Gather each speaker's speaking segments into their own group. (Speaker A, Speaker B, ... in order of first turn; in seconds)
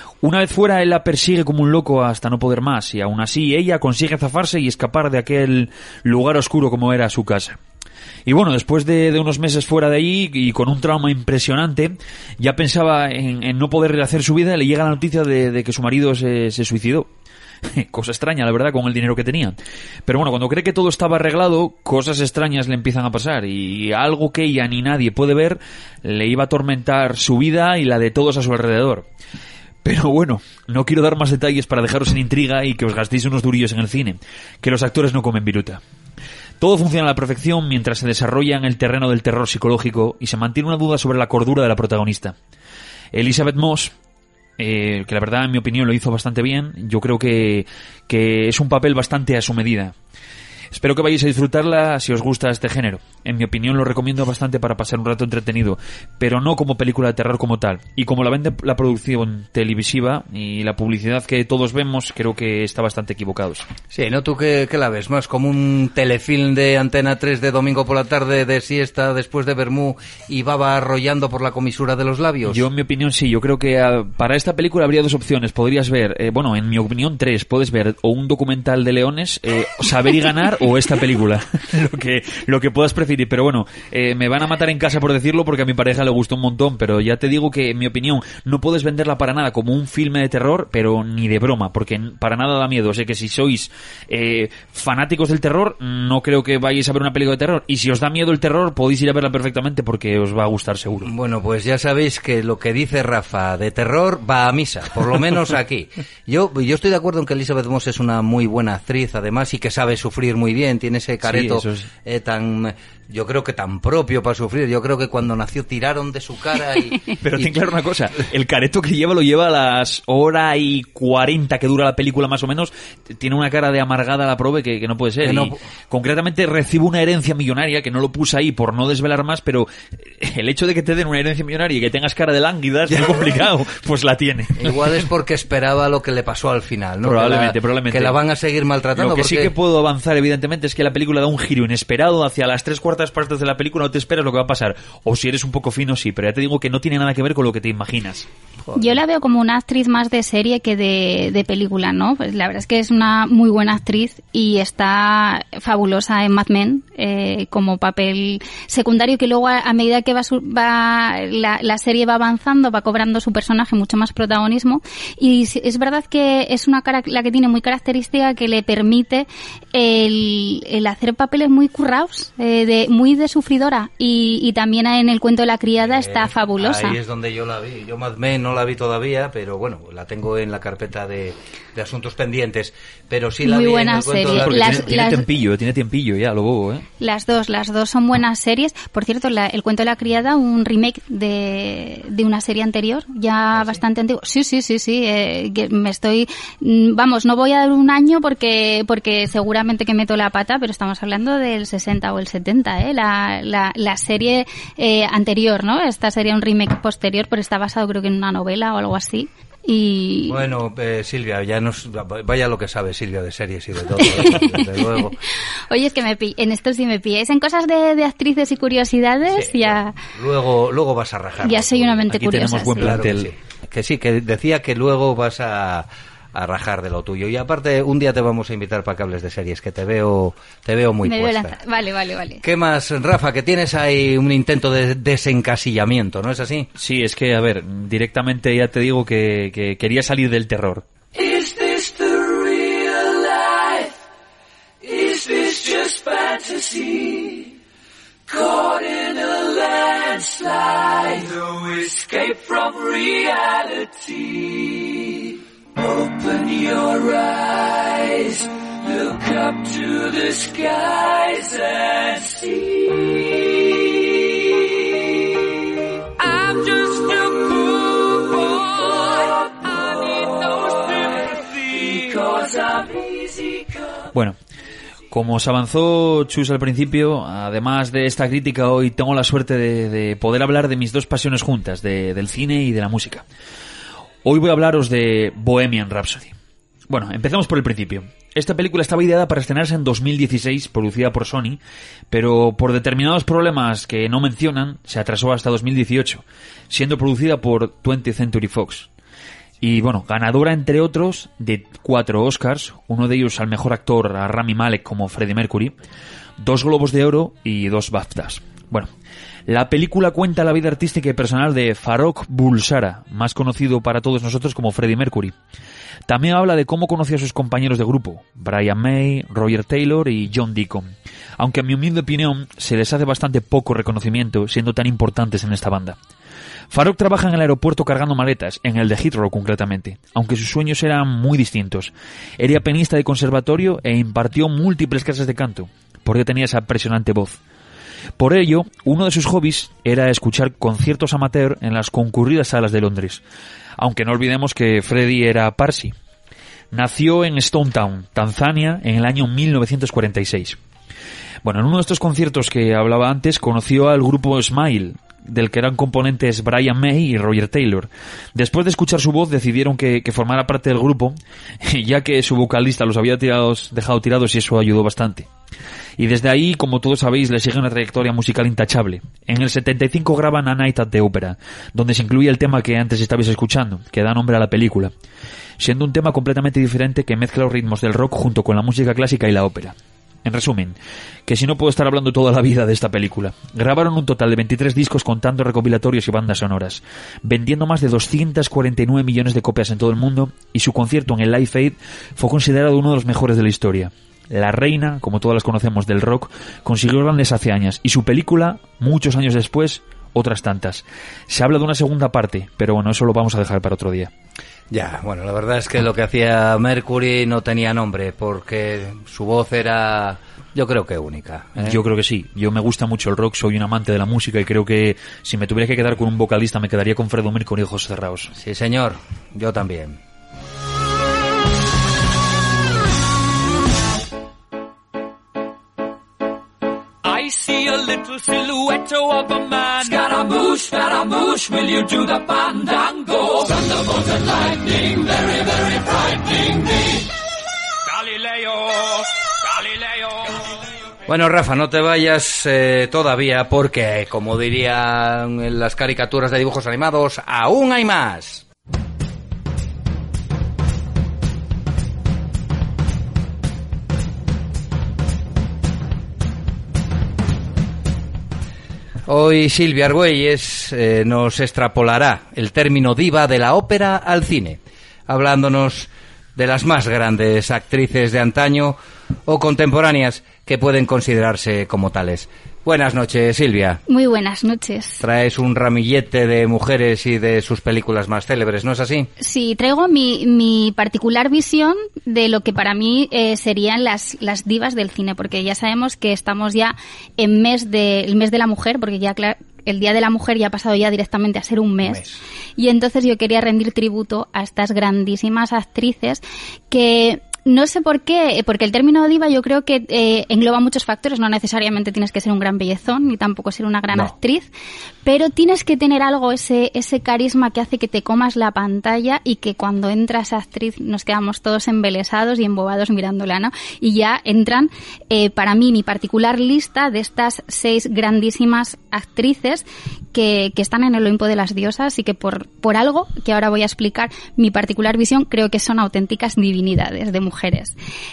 Speaker A: 0.2-7.6, 8.2-17.1, 17.6-19.6, 20.1-29.1, 29.8-35.8, 36.6-42.3, 43.1-43.9, 44.6-49.9, 50.7-63.6, 72.5-101.1, 111.2-111.9, 117.2-134.8, 137.0-138.2, 138.9-148.3, 184.3-186.8, 222.1-223.3, 236.8-240.8, 275.1-283.2, 284.2-286.3, 286.9-291.6, 292.1-298.9, 299.6-305.7, 306.4-308.9, 309.5-315.3, 316.1-325.9, 326.7-337.4, 338.2-343.2, 343.8-345.9, 346.7-350.6, 351.4-365.3, 366.0-374.9, 375.6-380.8, 381.3-404.1, 411.6-418.3
Speaker B: 63.9-72.6, 101.0-117.5, 125.2-125.6, 132.9-133.2, 134.6-139.5, 175.8-184.8, 210.3-215.2, 219.3-222.0, 222.8-231.6, 232.4-236.7, 404.7-411.8, 418.3-420.0, 441.1-448.4, 459.1-473.8, 475.0-479.1, 491.8-492.2
Speaker C: 148.7-177.0, 183.4-185.2, 187.0-210.4, 214.0-214.8, 215.7-220.0, 221.4-223.0, 231.0-232.4, 473.9-475.0, 479.2-492.0, 492.6-504.5, 505.0-527.7
Speaker D: 241.2-243.9, 244.8-247.5, 248.3-264.0, 266.2-273.6, 427.0-436.6, 437.9-440.4